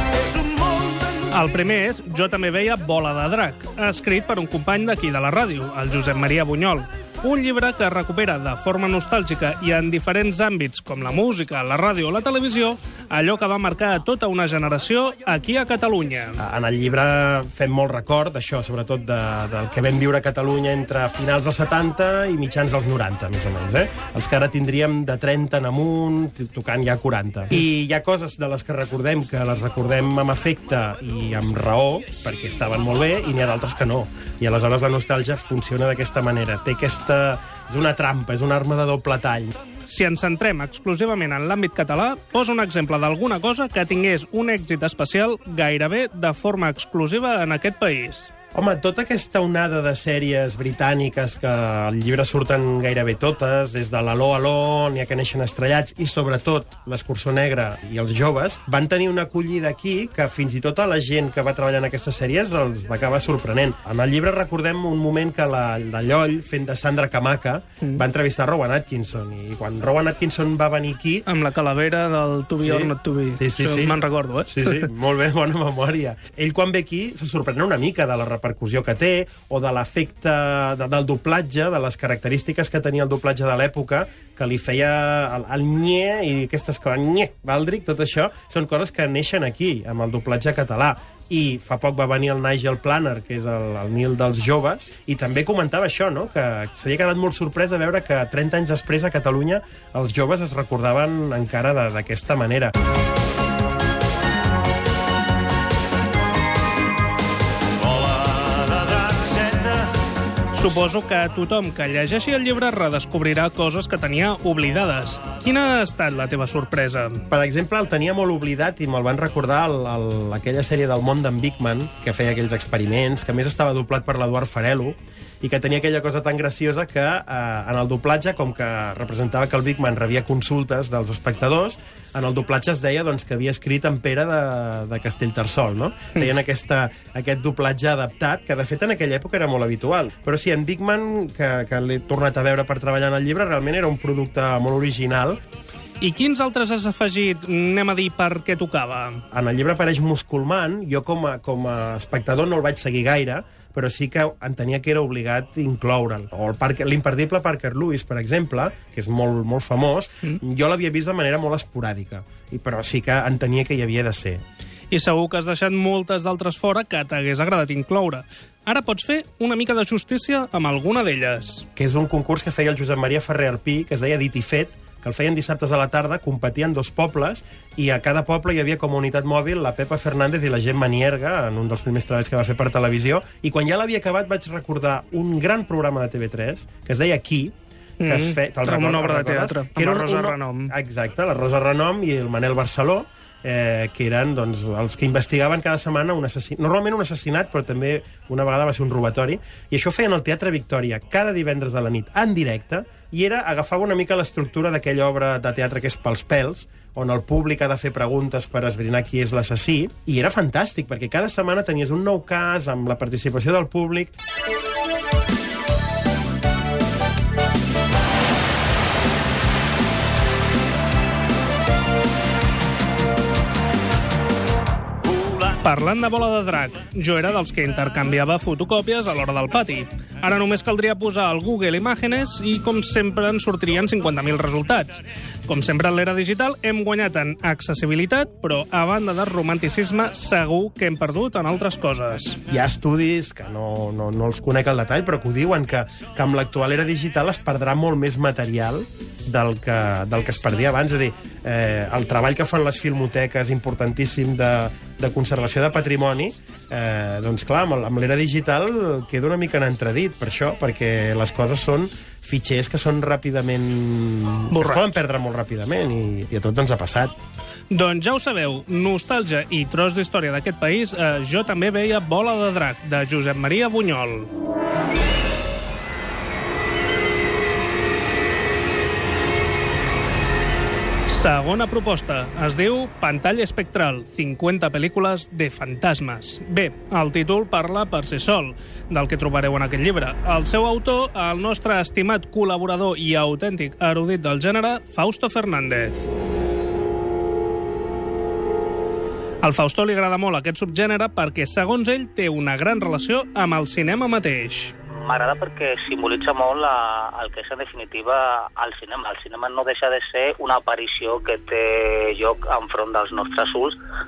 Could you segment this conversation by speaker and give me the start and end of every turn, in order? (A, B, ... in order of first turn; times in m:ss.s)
0:00.6-0:16.4 A
0:16.4-0:39.5 B
0:39.8-0:48.3 A
0:48.5-1:11.2 B
1:11.2-1:14.9 A
1:12.6-1:42.7 B
1:49.0-1:49.6 A
1:50.5-1:57.2 A
1:57.3-2:25.4 B
2:26.0-2:29.2 A
2:29.3-2:44.4 B
2:44.9-2:51.6 A
2:51.8-3:34.1 B
3:08.0-3:10.7 A
3:45.6-4:02.4 A
4:02.5-4:27.1 B
4:24.5-4:24.8 A
4:27.7-4:34.3 A
4:41.1-4:56.1 A
4:59.4-5:04.7 A
5:05.0-5:13.8 C